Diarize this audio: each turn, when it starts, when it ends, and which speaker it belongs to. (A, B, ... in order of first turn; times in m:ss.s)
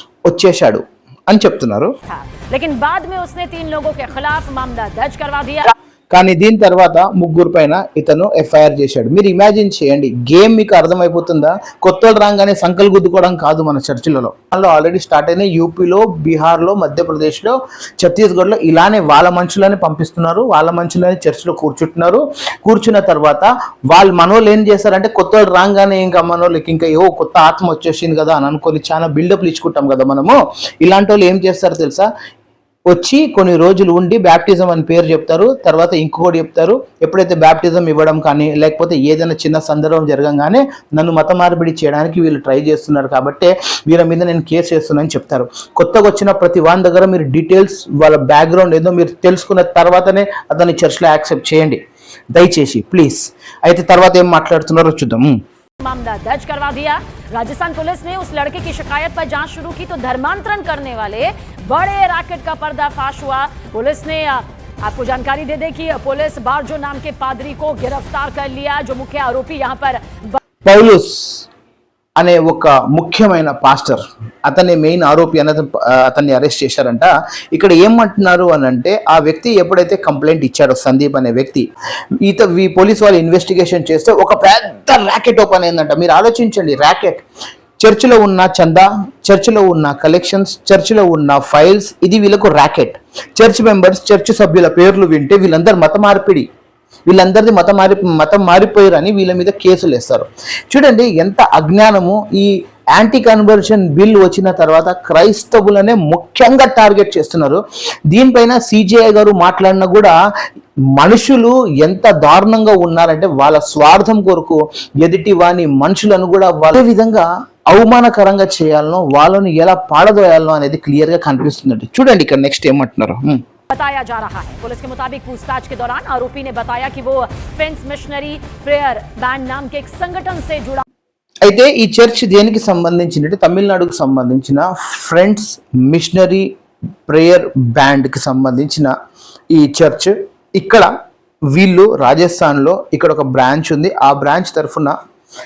0:00.3-0:01.9 A
0:02.1-0:05.7 B
0:06.1-0:32.1 A
0:32.9-0:51.8 A
0:52.3-0:55.4 A
0:55.8-1:10.4 B
1:10.7-1:11.5 A
1:12.2-1:21.6 A
1:22.2-1:27.2 A
1:27.8-1:36.5 A
1:37.1-1:50.2 A
1:51.0-2:03.4 A
2:03.7-2:10.8 B
2:11.4-2:16.5 A
2:17.1-2:18.9 A
2:19.5-2:20.9 A
2:21.5-2:25.0 A